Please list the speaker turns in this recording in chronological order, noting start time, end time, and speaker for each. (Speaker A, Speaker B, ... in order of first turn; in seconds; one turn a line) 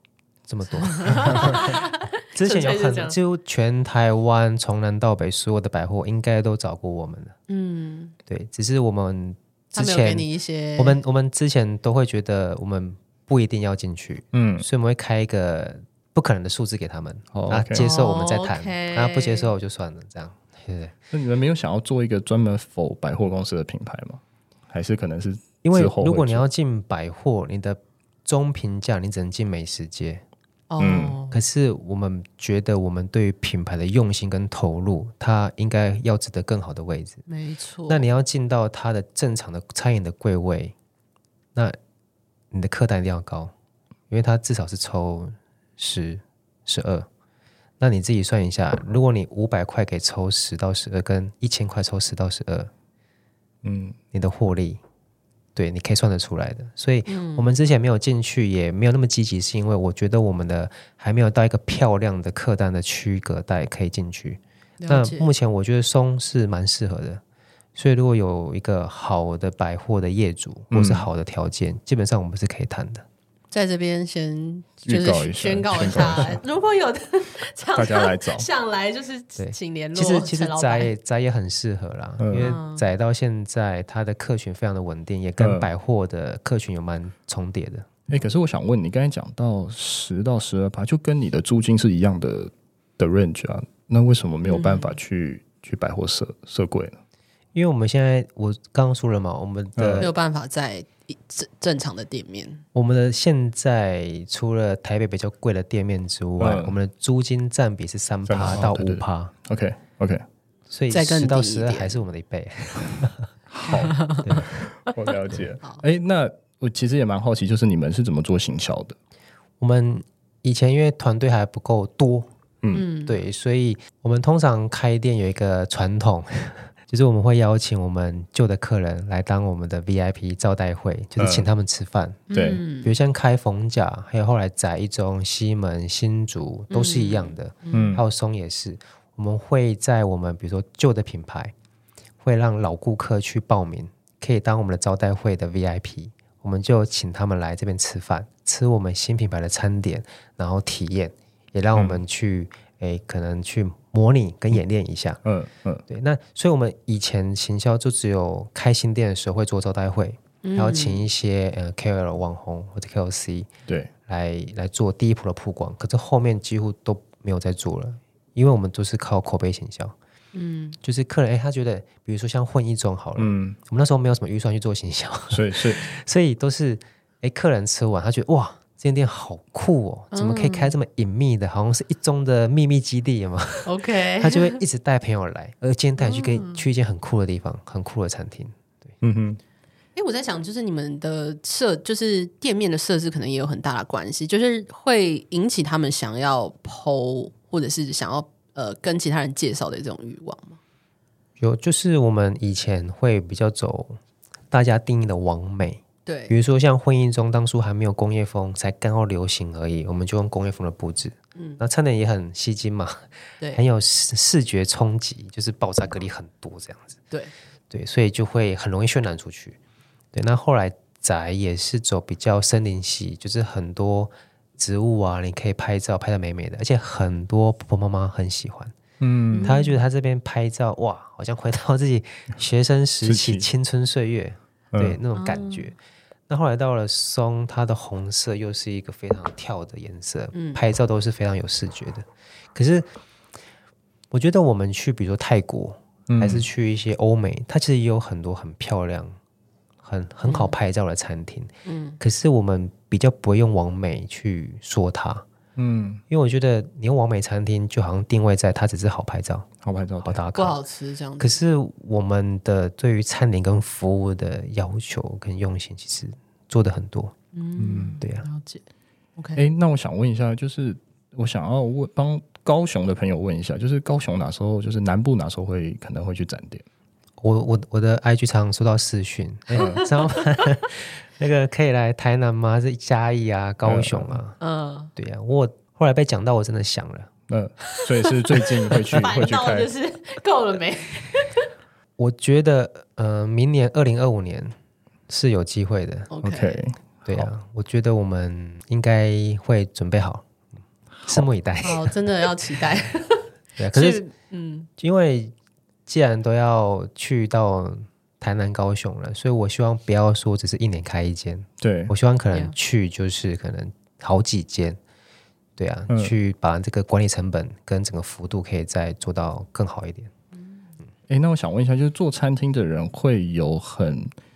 Speaker A: 0.5-1.8
Speaker B: 0.8-3.1
Speaker A: 2.3-7.4
Speaker B: 7.5-8.1
Speaker A: 8.2-20.9
Speaker B: 9.7-11.0
Speaker C: 14.3-14.7
Speaker C: 17.3-17.9
Speaker B: 17.8-19.5
Speaker C: 21.1-26.4
Speaker A: 25.6-30.2
Speaker B: 30.7-31.4
Speaker C: 30.8-31.2
Speaker A: 31.3-37.2
Speaker B: 37.3-38.0
Speaker A: 37.9-40.7
Speaker A: 42.5-43.5
Speaker A: 44.1-47.1
Speaker A: 47.8-52.7
Speaker C: 53.6-54.0
Speaker A: 54.1-54.8
Speaker A: 55.5-67.2
Speaker B: 57.1-57.5
Speaker B: 64.8-65.3
Speaker A: 67.8-73.0
Speaker C: 70.7-71.1
Speaker B: 73.5-80.9
Speaker C: 74.9-76.4
Speaker C: 77.7-78.5
Speaker A: 79.4-87.9
Speaker C: 82.2-82.5
Speaker B: 82.4-82.8
Speaker C: 85.4-85.7
Speaker C: 88.1-97.0
Speaker B: 94.4-95.0
Speaker A: 97.5-100.1
Speaker C: 99.8-100.1
Speaker B: 100.0-102.6
Speaker A: 102.7-109.3
Speaker C: 106.4-106.8
Speaker C: 108.3-110.2
Speaker A: 110.7-113.3
Speaker B: 110.9-112.0
Speaker C: 113.5-119.0
Speaker B: 113.7-114.4
Speaker A: 119.6-122.3
Speaker B: 122.7-123.2
Speaker A: 123.0-132.2
Speaker C: 131.2-131.5
Speaker B: 132.3-132.9
Speaker C: 132.3-132.6
Speaker A: 132.8-141.5
Speaker B: 136.7-138.0
Speaker C: 137.7-138.0
Speaker A: 142.2-155.2
Speaker C: 155.2-155.8
Speaker A: 155.9-163.5
Speaker B: 160.4-161.0
Speaker A: 164.1-169.9
Speaker B: 170.3-170.8
Speaker A: 170.8-188.6
Speaker C: 173.2-173.6
Speaker C: 175.3-175.8
Speaker B: 180.1-180.7
Speaker B: 183.6-184.6
Speaker B: 186.0-186.6
Speaker C: 189.0-189.4
Speaker B: 189.9-200.6
Speaker A: 201.4-204.0
Speaker A: 204.5-217.0
Speaker B: 206.1-206.4
Speaker B: 211.4-211.6
Speaker A: 217.7-219.6
Speaker A: 220.1-228.7
Speaker C: 229.0-229.5
Speaker B: 229.3-229.8
Speaker A: 229.4-235.7
Speaker C: 233.0-233.5
Speaker C: 234.7-235.0
Speaker B: 235.1-235.7
Speaker A: 236.3-242.9
Speaker B: 240.3-240.6
Speaker A: 244.1-249.2
Speaker C: 246.1-246.4
Speaker A: 249.8-255.2
Speaker B: 250.3-250.6
Speaker B: 251.7-252.0
Speaker C: 255.6-256.0
Speaker A: 256.1-259.5
Speaker C: 259.6-260.2
Speaker A: 260.0-260.6
Speaker B: 260.3-261.4
Speaker A: 261.2-267.1
Speaker B: 267.3-268.6
Speaker C: 267.6-268.0
Speaker A: 268.0-268.2
Speaker B: 269.2-269.4
Speaker C: 269.4-276.6
Speaker A: 277.2-284.4
Speaker C: 279.5-279.8
Speaker B: 279.6-280.3
Speaker C: 283.6-284.1
Speaker B: 284.4-284.9
Speaker A: 284.9-287.1
Speaker C: 287.3-289.7
Speaker B: 287.7-291.4
Speaker A: 292.0-294.6
Speaker A: 295.1-296.1
Speaker B: 296.1-296.6
Speaker C: 296.2-297.3
Speaker A: 297.1-300.2
Speaker A: 301.1-301.9
Speaker B: 301.6-304.7
Speaker A: 303.6-304.0
Speaker A: 304.8-305.3
Speaker A: 305.9-314.8
Speaker C: 311.6-311.9
Speaker A: 315.6-320.1
Speaker B: 320.3-320.6
Speaker C: 321.1-324.1